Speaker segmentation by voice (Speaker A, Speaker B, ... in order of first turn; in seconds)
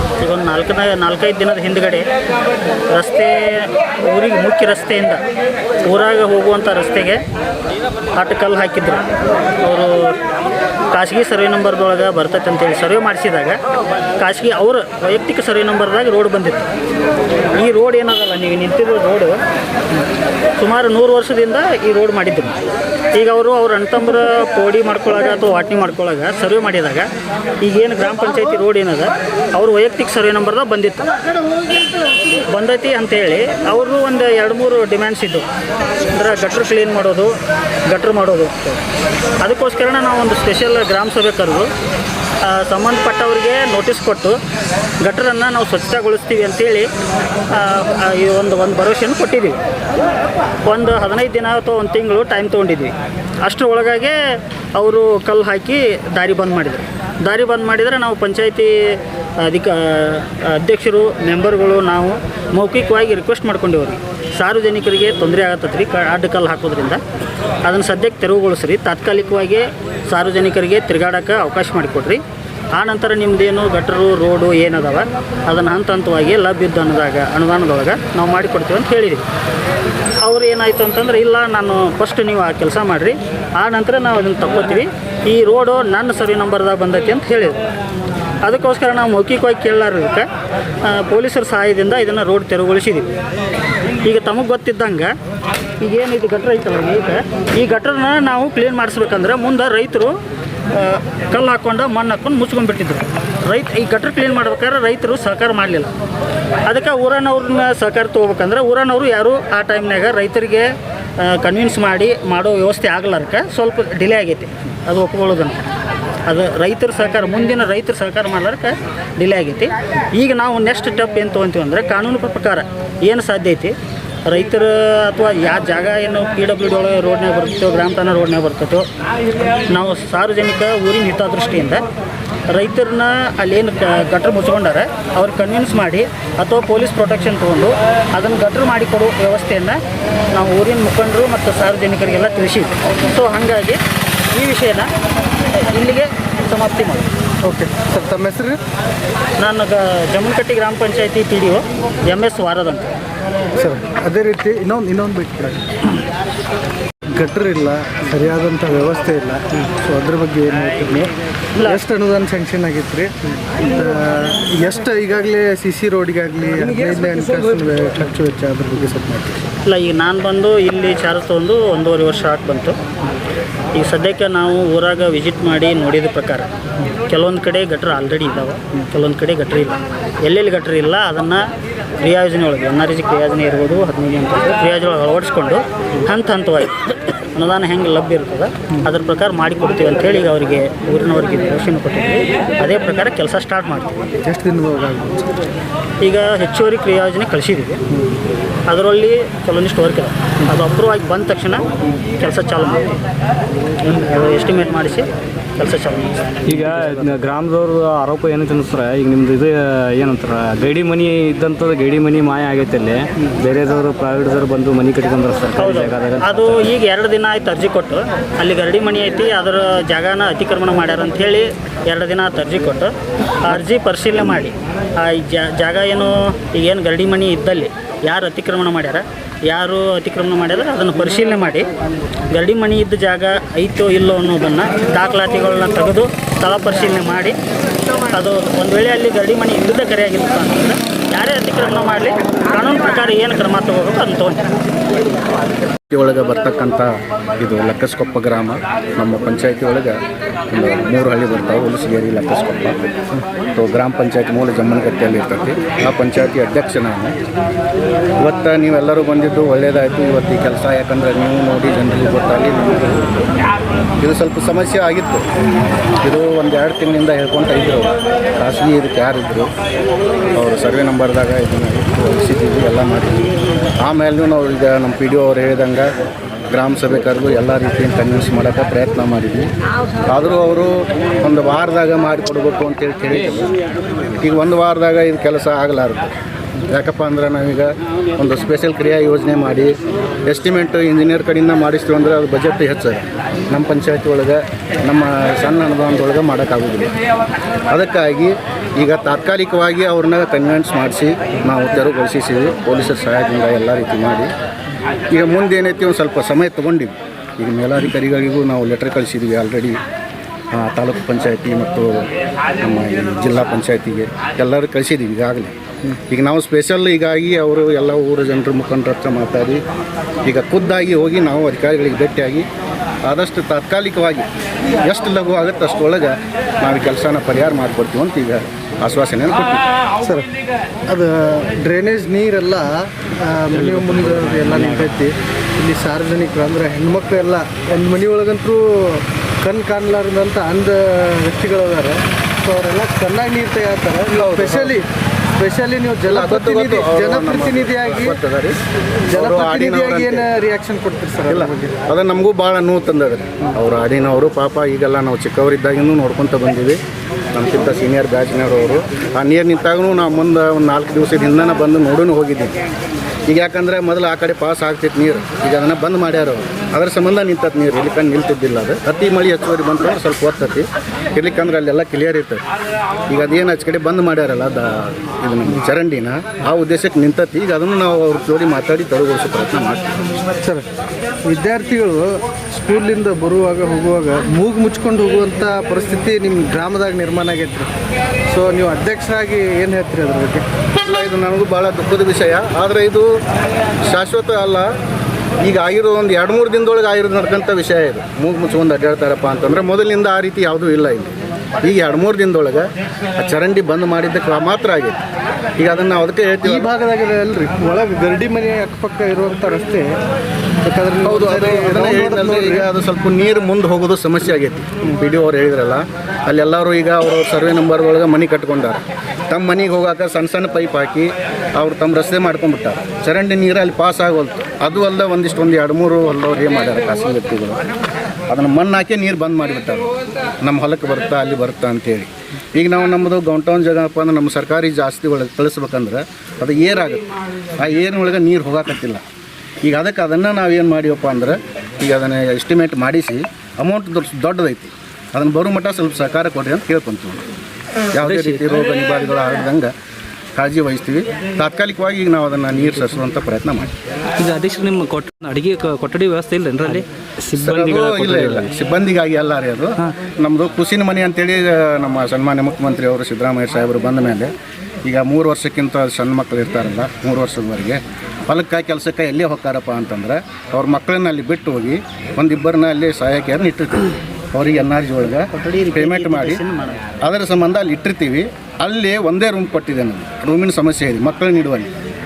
Speaker A: 0.2-2.1, 2.9-5.2, 5.8-7.2, 8.1-9.0, 9.6-10.2, 10.9-13.6, 14.2-16.7, 17.5-19.4, 20.6-22.5, 23.1-27.1, 27.6-31.1, 32.5-35.4, 36.1-37.3, 37.9-38.8, 39.4-41.7, 42.4-44.4, 45.0-46.9, 47.5-49.6, 50.6-67.0, 67.7-72.2, 72.8-79.2, 80.2-87.6, 88.4-90.2, 90.8-93.1, 94.0-95.1, 95.8-100.1, 100.7-105.9, 106.7-110.7, 111.2-115.7, 116.3-128.9, 129.7-131.8, 132.5-139.8, 140.3-143.8, 144.3-144.9, 145.5-147.1, 149.4-152.9, 161.5-161.8, 169.7-172.8, 173.7-176.5, 177.1-181.4, 182.0-194.0, 196.0-197.8, 198.7-201.6, 202.2-203.0, 203.8-206.2, 215.6-231.7, 232.3-237.4, 238.1-244.4, 475.3-476.8
Speaker B: 147.4-148.6, 153.6-155.7, 157.1-161.1, 161.6-169.4, 194.2-195.3, 330.0-330.3, 330.9-344.9, 345.4-348.2, 349.1-351.7, 380.4-380.6, 381.2-387.7, 388.3-390.4, 406.4-409.9, 410.6-412.7
Speaker C: 206.4-216.7, 333.5-335.0, 456.6-458.5
Speaker D: 245.9-252.8, 253.5-257.1, 258.2-263.2, 264.0-265.2, 266.0-269.5, 270.3-273.3, 273.8-275.9, 276.5-279.5, 280.1-283.5, 284.2-286.1, 286.7-289.7, 290.2-296.9, 297.7-304.3, 305.1-309.8, 310.5-312.1, 312.6-319.6, 320.2-322.5, 323.0-324.3, 324.9-329.6, 344.1-344.8, 346.1-348.6, 349.1-350.3, 351.3-356.8, 357.3-362.5, 363.3-372.4, 373.1-379.9, 390.8-393.1, 393.8-394.7, 395.4-405.0, 405.6-406.7, 411.0-427.6, 428.3-429.9, 430.4-439.0, 439.6-447.2, 447.9-449.7, 450.4-453.7, 457.4-464.3, 464.9-476.4, 477.0-481.7
Speaker E: 454.2-456.8